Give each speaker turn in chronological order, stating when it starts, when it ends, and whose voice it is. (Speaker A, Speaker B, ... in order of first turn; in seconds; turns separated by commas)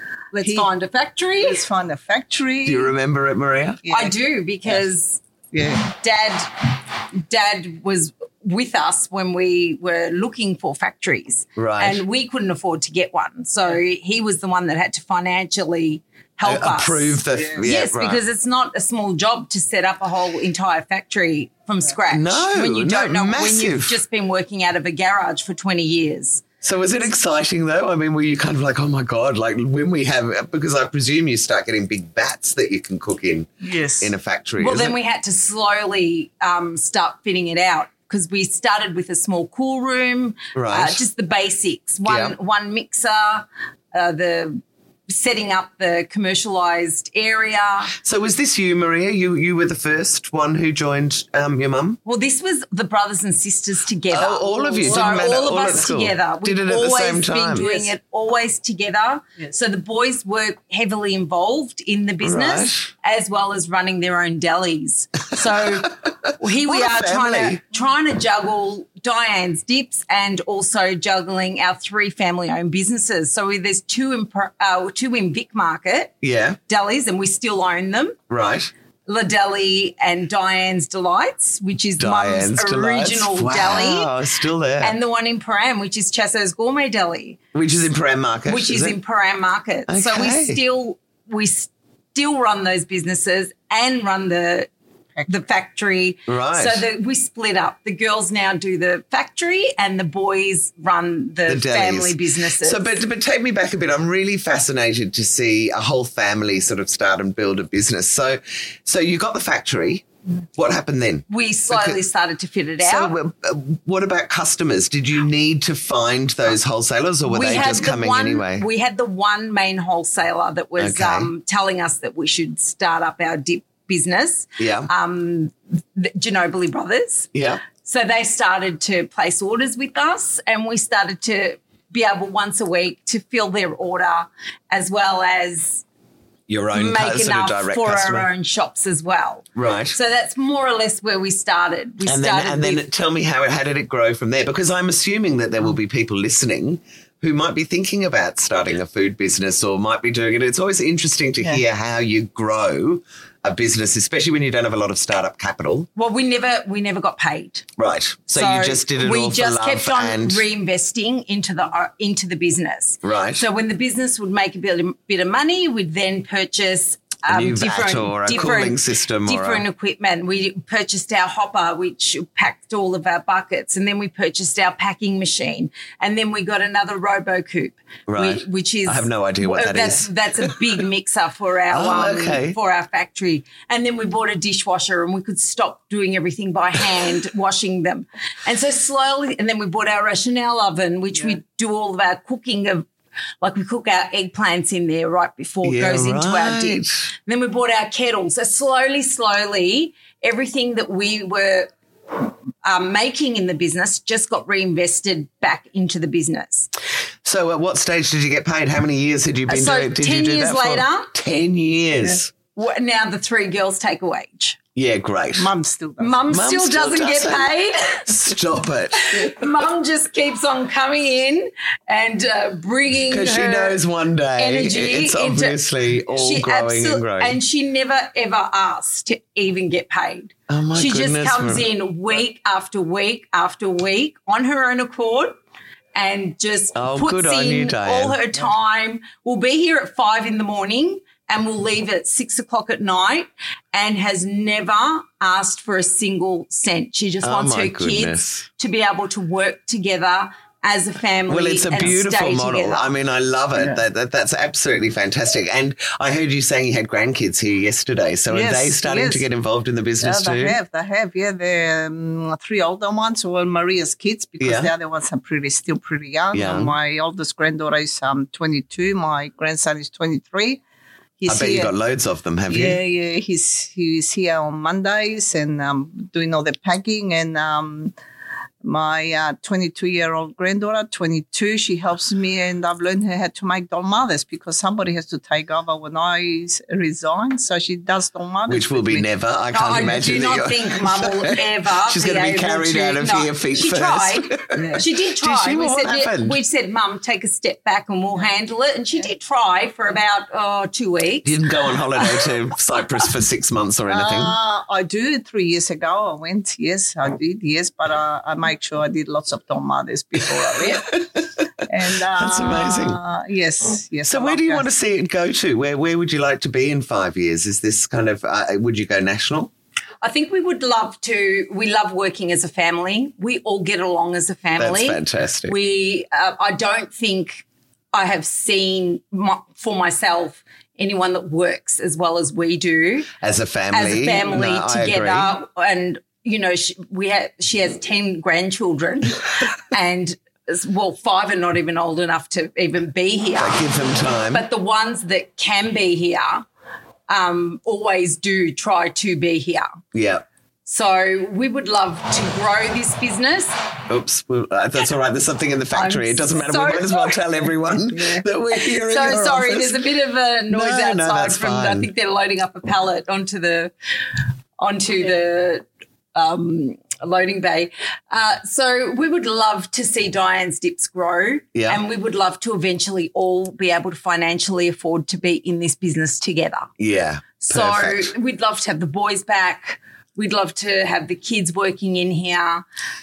Speaker A: 0.3-0.7, Speaker B: 0.3-1.6, Speaker A: 1.4-2.9, Speaker C: 2.6-3.8, Speaker A: 3.8-4.1, Speaker B: 3.9-5.2, Speaker A: 5.5-5.8, Speaker B: 5.8-6.6, Speaker B: 7.2-26.4, Speaker C: 11.6-12.0, Speaker C: 16.4-18.2, Speaker A: 17.3-17.6, Speaker C: 22.1-24.0, Speaker C: 26.6-34.9, Speaker A: 33.6-34.1, Speaker B: 34.6-47.9, Speaker C: 40.5-41.0, Speaker C: 42.0-42.3, Speaker C: 48.0-52.0, Speaker B: 52.0-76.1, Speaker C: 54.1-57.7, Speaker A: 54.8-55.4, Speaker A: 57.6-57.9, Speaker C: 62.2-62.9, Speaker C: 65.4-67.6, Speaker C: 76.2-76.6, Speaker B: 76.7-78.2, Speaker C: 78.3-78.7, Speaker B: 79.1-84.1, Speaker C: 82.0-85.0, Speaker B: 84.8-87.4, Speaker C: 87.5-89.0, Speaker B: 88.5-94.7, Speaker C: 89.9-90.6, Speaker B: 95.3-103.0, Speaker C: 96.3-96.8, Speaker C: 101.5-110.0, Speaker C: 110.5-112.0, Speaker B: 111.3-113.1, Speaker C: 112.8-118.7, Speaker B: 117.3-135.8, Speaker C: 120.8-121.3, Speaker C: 124.6-124.9, Speaker C: 127.3-127.6, Speaker C: 136.5-138.3, Speaker B: 136.7-142.9, Speaker C: 139.6-140.0, Speaker C: 142.1-155.9, Speaker B: 155.9-157.7, Speaker C: 157.8-160.4, Speaker B: 158.3-192.9, Speaker C: 163.0-163.4, Speaker C: 167.3-169.6, Speaker C: 178.1-180.6, Speaker C: 181.7-182.6, Speaker B: 193.4-201.7, Speaker C: 195.6-197.0, Speaker B: 202.6-206.7, Speaker C: 207.2-212.3, Speaker B: 209.5-211.1, Speaker B: 212.5-214.6, Speaker C: 214.8-215.5, Speaker A: 215.3-216.2, Speaker B: 216.0-218.1, Speaker C: 216.3-217.5, Speaker C: 218.0-219.3, Speaker B: 218.9-223.8, Speaker C: 223.1-227.4, Speaker B: 224.4-235.4, Speaker C: 230.5-231.7, Speaker B: 235.9-252.9, Speaker C: 236.8-238.2, Speaker C: 247.2-248.4, Speaker C: 251.3-260.6, Speaker A: 253.6-253.8, Speaker A: 258.3-259.2, Speaker A: 260.0-270.6, Speaker C: 264.4-264.7, Speaker C: 266.3-266.7, Speaker A: 271.2-271.7, Speaker C: 271.3-272.8, Speaker A: 272.5-277.9, Speaker A: 278.6-289.1, Speaker C: 288.5-296.4, Speaker B: 289.5-301.4, Speaker A: 294.5-294.8, Speaker C: 301.2-304.3, Speaker A: 303.9-311.0, Speaker C: 310.6-311.2, Speaker A: 311.6-314.7, Speaker C: 312.1-313.0, Speaker C: 314.1-319.5, Speaker B: 320.0-333.1, Speaker C: 324.6-325.5, Speaker C: 333.2-335.3, Speaker B: 333.7-343.6, Speaker C: 343.4-344.4, Speaker B: 344.3-346.4, Speaker B: 347.1-349.7, Speaker C: 349.9-350.2, Speaker B: 350.6-353.5, Speaker C: 353.9-359.9, Speaker B: 355.7-357.3, Speaker B: 358.5-363.7, Speaker C: 360.5-361.9, Speaker B: 364.6-365.6, Speaker B: 366.1-376.7, Speaker C: 371.5-371.8, Speaker C: 376.8-378.1, Speaker B: 377.4-382.6